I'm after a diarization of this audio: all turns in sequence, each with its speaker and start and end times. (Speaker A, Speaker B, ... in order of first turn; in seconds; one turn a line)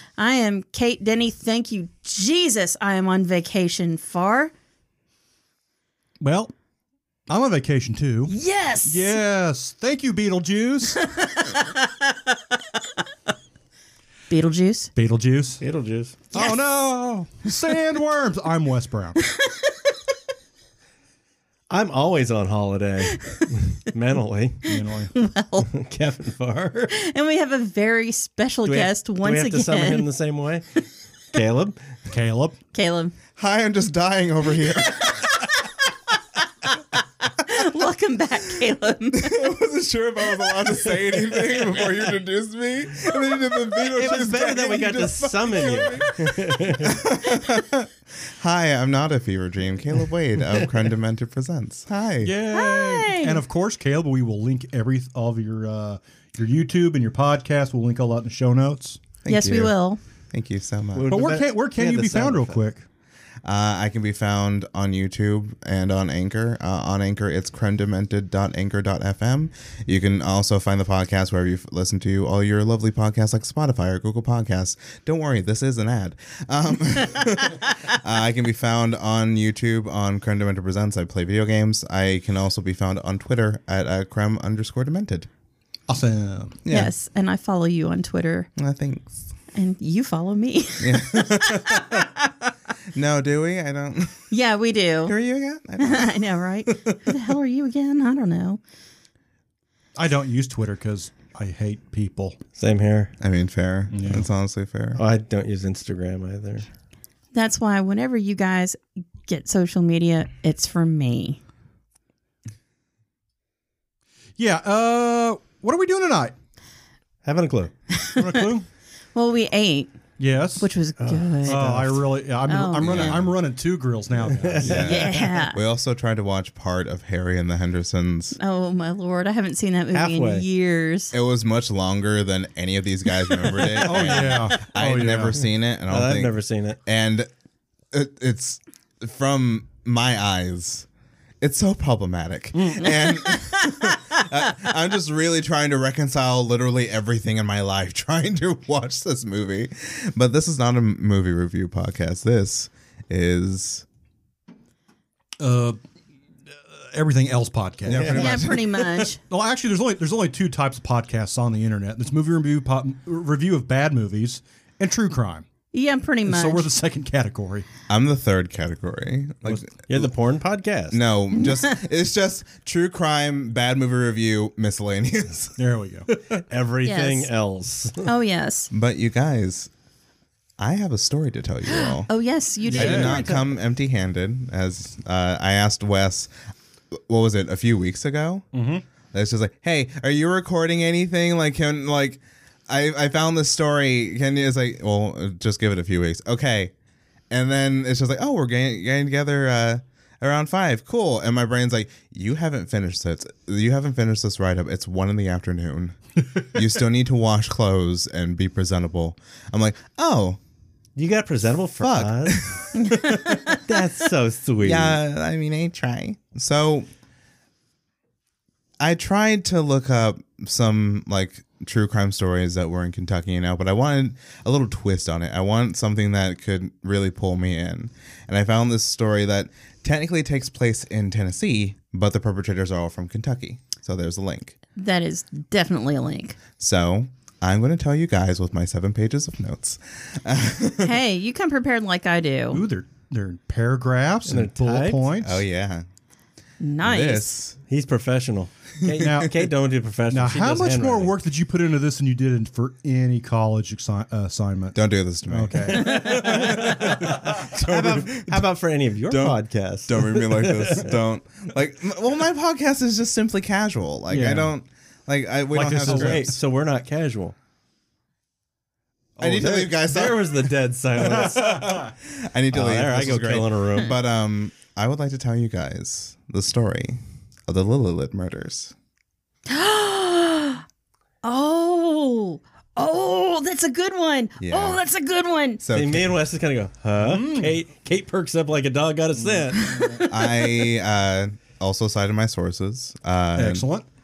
Speaker A: 0.2-4.5
Speaker B: 6.2-6.5
Speaker B: 7.3-8.3
Speaker A: 8.3-9.1
Speaker B: 8.8-11.2
Speaker A: 11.0-11.8
Speaker A: 14.3-14.9
Speaker B: 14.9-15.6
Speaker C: 15.6-16.2
Speaker B: 16.3-19.2
Speaker A: 19.2-19.7
Speaker C: 21.7-24.6
Speaker A: 23.1-23.5
Speaker B: 24.6-25.1
Speaker A: 24.7-25.7
Speaker C: 25.6-26.9
Speaker A: 26.9-30.1
Speaker C: 28.6-31.8
Speaker B: 32.1-32.6
Speaker A: 32.7-33.1
Speaker D: 33.4-35.3
Speaker A: 37.0-39.5
Speaker D: 39.1-52.4
Speaker C: 43.9-47.0
Speaker B: 52.2-59.0
Speaker A: 52.5-53.4
Speaker D: 59.2-59.7
Speaker A: 59.2-60.0
Speaker D: 60.3-61.1
Speaker C: 60.9-62.6
Speaker B: 61.1-62.8
Speaker D: 63.4-85.3
Speaker B: 85.9-86.6
Speaker D: 86.6-86.9
Speaker A: 86.7-88.5
Speaker D: 88.6-89.3
Speaker A: 89.5-92.1
Speaker D: 90.8-92.1
Speaker D: 92.9-94.3
Speaker A: 94.3-95.1
Speaker D: 95.0-97.2
Speaker A: 95.8-98.6
Speaker B: 100.0-102.4
Speaker C: 102.6-103.1
Speaker D: 103.2-105.0
Speaker B: 103.9-104.3
Speaker C: 105.0-106.7
Speaker A: 107.3-111.4
Speaker B: 114.4-116.3
Speaker C: 117.2-117.7
Speaker A: 117.9-118.4
Speaker B: 118.2-118.7
Speaker A: 119.1-119.9
Speaker B: 120.2-120.7
Speaker A: 120.6-121.6
Speaker C: 121.0-122.0
Speaker B: 121.5-124.9
Speaker A: 122.5-123.2
Speaker D: 122.8-123.3
Speaker C: 124.2-125.3
Speaker D: 124.6-128.4
Speaker A: 124.8-125.6
Speaker A: 128.4-131.1
Speaker C: 129.9-130.4
Speaker D: 131.1-137.3
Speaker B: 133.8-135.4
Speaker C: 135.9-136.8
Speaker D: 137.9-140.9
Speaker D: 141.4-153.8
Speaker A: 142.8-144.2
Speaker B: 155.4-155.8
Speaker B: 156.7-165.4
Speaker D: 157.9-158.6
Speaker C: 157.9-158.2
Speaker A: 158.1-159.2
Speaker A: 165.7-166.7
Speaker B: 166.2-167.7
Speaker D: 167.9-170.1
Speaker C: 169.9-171.0
Speaker D: 170.9-175.6
Speaker B: 175.6-176.1
Speaker C: 176.3-178.1
Speaker A: 176.8-177.3
Speaker A: 178.0-178.7
Speaker D: 178.7-179.7
Speaker D: 180.6-182.1
Speaker A: 181.7-183.4
Speaker D: 182.6-186.3
Speaker B: 182.7-183.3
Speaker D: 186.9-188.5
Speaker B: 188.5-188.8
Speaker D: 189.1-196.7
Speaker D: 197.3-205.9
Speaker D: 206.5-210.4
Speaker C: 210.9-215.0
Speaker D: 211.8-212.7
Speaker A: 212.7-213.6
Speaker D: 214.6-216.9
Speaker D: 218.8-234.6
Speaker A: 234.8-236.4
Speaker D: 236.6-241.0
Speaker A: 240.8-242.6
Speaker B: 242.5-245.4
Speaker C: 244.2-245.1
Speaker D: 245.2-245.8
Speaker A: 246.6-247.4
Speaker D: 246.8-247.6
Speaker C: 247.7-251.1
Speaker B: 249.0-249.3
Speaker B: 250.1-257.2
Speaker D: 254.7-258.4
Speaker C: 256.0-260.9
Speaker D: 259.1-266.3
Speaker B: 264.1-264.5
Speaker B: 265.5-266.3
Speaker C: 265.8-267.4
Speaker D: 269.2-270.4
Speaker C: 269.2-271.9
Speaker D: 271.2-278.7
Speaker C: 272.5-273.9
Speaker A: 279.5-280.6
Speaker A: 281.2-285.6
Speaker D: 284.4-284.8
Speaker D: 285.6-286.2
Speaker C: 285.7-290.1
Speaker B: 287.0-287.5
Speaker D: 290.0-293.6
Speaker B: 293.4-293.8